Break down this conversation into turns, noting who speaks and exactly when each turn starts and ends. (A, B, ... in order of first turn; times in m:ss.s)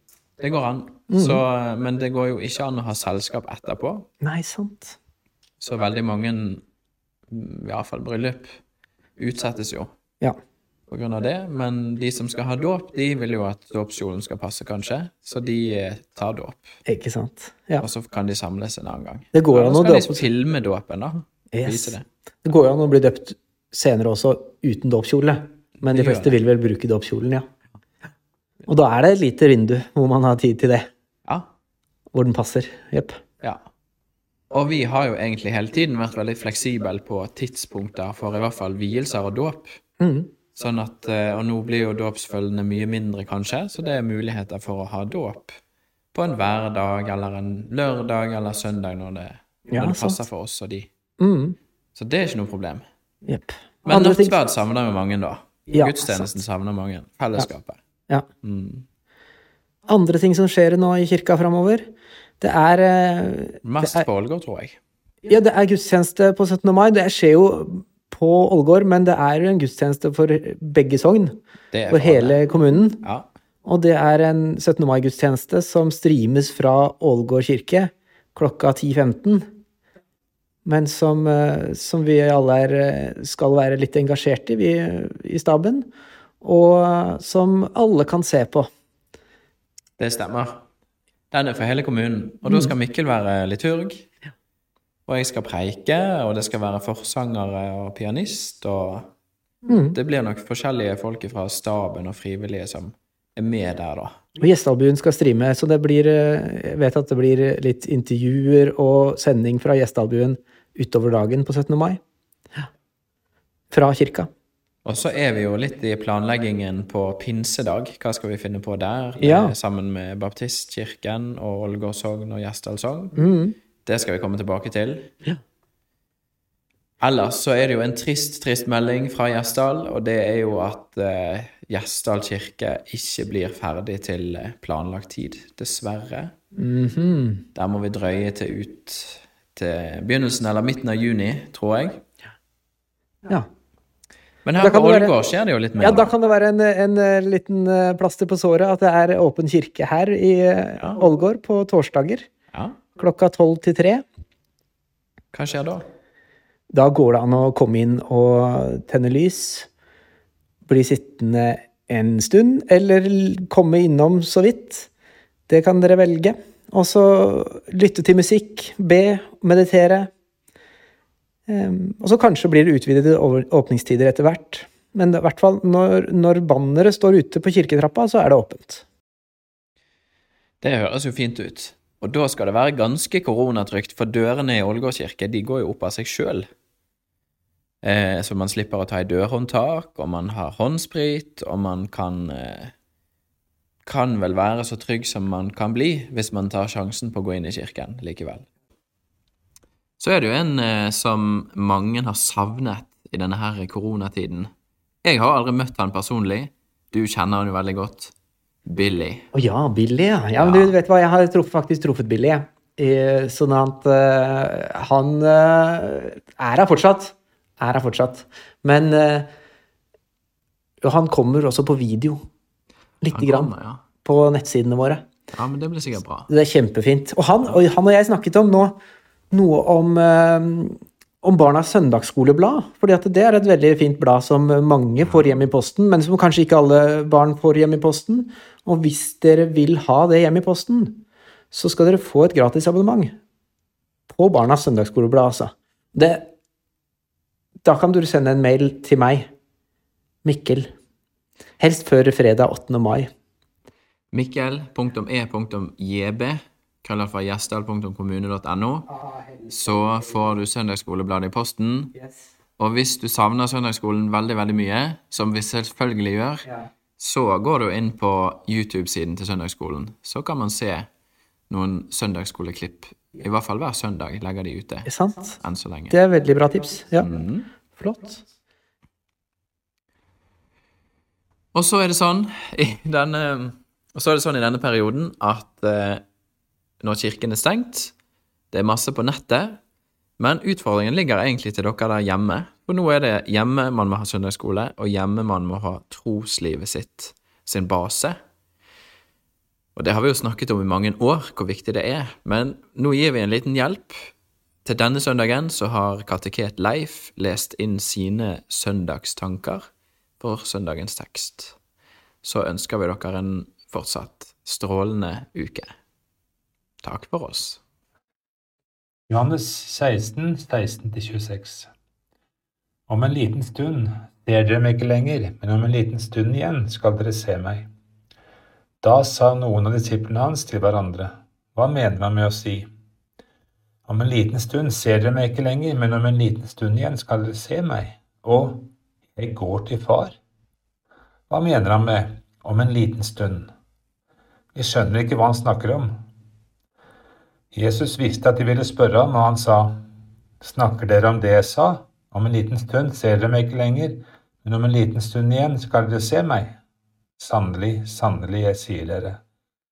0:00.4-0:04.1 A
0:01.1-0:01.4 B
0:04.2-0:05.0 B
0:05.6-0:06.6 A
0:07.3-0:08.6 A
0:09.2-0:09.9 A
0:10.9-0:16.7 A
0:16.8-0:17.8 B
0:17.8-0:22.0 A
0:19.3-0:20.3 B
0:21.5-0:27.5 B
0:25.8-0:26.4 A
0:28.6-0:30.9 B
0:32.1-0:33.2 B
0:34.5-0:39.8 A
0:40.0-0:40.3 B
0:40.5-0:45.5 A
0:46.1-0:50.9 A
0:49.7-0:50.2 B
0:51.2-0:51.6 B
0:51.9-0:52.8 A
0:53.2-0:54.3 B
0:53.8-0:57.8 A
0:55.7-0:56.4 B
0:58.4-0:58.8 A
0:59.9-1:01.8 B
1:02.4-1:04.0 B
1:03.6-1:04.8 A
1:05.3-1:11.4 B
1:11.7-1:13.3 A
1:11.9-1:13.0 B
1:13.6-1:19.4 B
1:20.6-1:25.9 B
1:26.4-1:28.7 B
1:30.0-1:30.6 A
1:31.3-1:34.1 A
1:32.5-1:32.7 B
1:35.1-1:39.1 A
1:39.7-1:40.0 B
1:39.9-1:44.1 A
1:44.4-1:52.0 B
1:53.7-1:54.3 B
1:54.8-2:03.2 A
1:59.2-1:59.5 B
2:03.2-2:03.6 B
2:03.8-2:05.1 A
2:07.0-2:16.3 A
2:16.6-2:17.4 B
2:17.5-2:22.0 A
2:24.4-2:26.1 A
2:24.6-2:25.1 B
2:25.8-2:32.2 B
2:33.0-2:34.0 B
2:35.3-2:35.8 A
2:36.7-2:39.7 B
2:40.6-2:44.9 B
2:45.5-2:50.1 B
2:51.5-2:58.8 B
3:00.6-3:06.4 A
3:07.8-3:12.7 A
3:13.8-3:18.4 A
3:20.0-3:24.5 A
3:25.0-3:28.1 A
3:28.7-3:29.3 A
3:29.3-3:39.3 B
3:30.4-3:30.7 A
3:40.8-3:42.2 B
3:43.0-3:43.5 B
3:43.1-3:43.8 A
3:44.0-3:45.0 B
3:45.3-3:46.3 A
3:46.3-3:48.8 B
3:49.3-4:03.1 B
3:55.0-3:55.4 A
4:04.1-4:06.3 B
4:07.6-4:09.3 B
4:10.2-4:10.7 B
4:11.6-4:13.1 B
4:14.1-4:18.9 A
4:19.0-4:19.9 B
4:19.5-4:21.9 A
4:22.6-4:26.5 A
4:27.0-4:30.9 A
4:31.5-4:36.0 A
4:34.8-4:35.4 B
4:35.9-4:37.1 B
4:37.0-4:37.5 A
4:37.7-4:38.2 B
4:41.5-4:46.0 A
4:46.8-4:47.9 A
4:48.5-4:49.6 A
4:50.2-4:58.2 A
4:59.8-5:04.1 A
5:04.6-5:09.6 A
5:10.2-5:11.6 A
5:12.2-5:15.7 A
5:16.8-5:17.6 A
5:19.1-5:21.7 C
5:22.9-5:27.7 C
5:28.8-5:32.7 C
5:33.9-5:40.2 C
5:41.3-5:43.5 C
5:44.5-5:45.9 C
5:47.5-5:49.8 C
5:50.4-5:56.6 C
5:57.2-5:59.2 C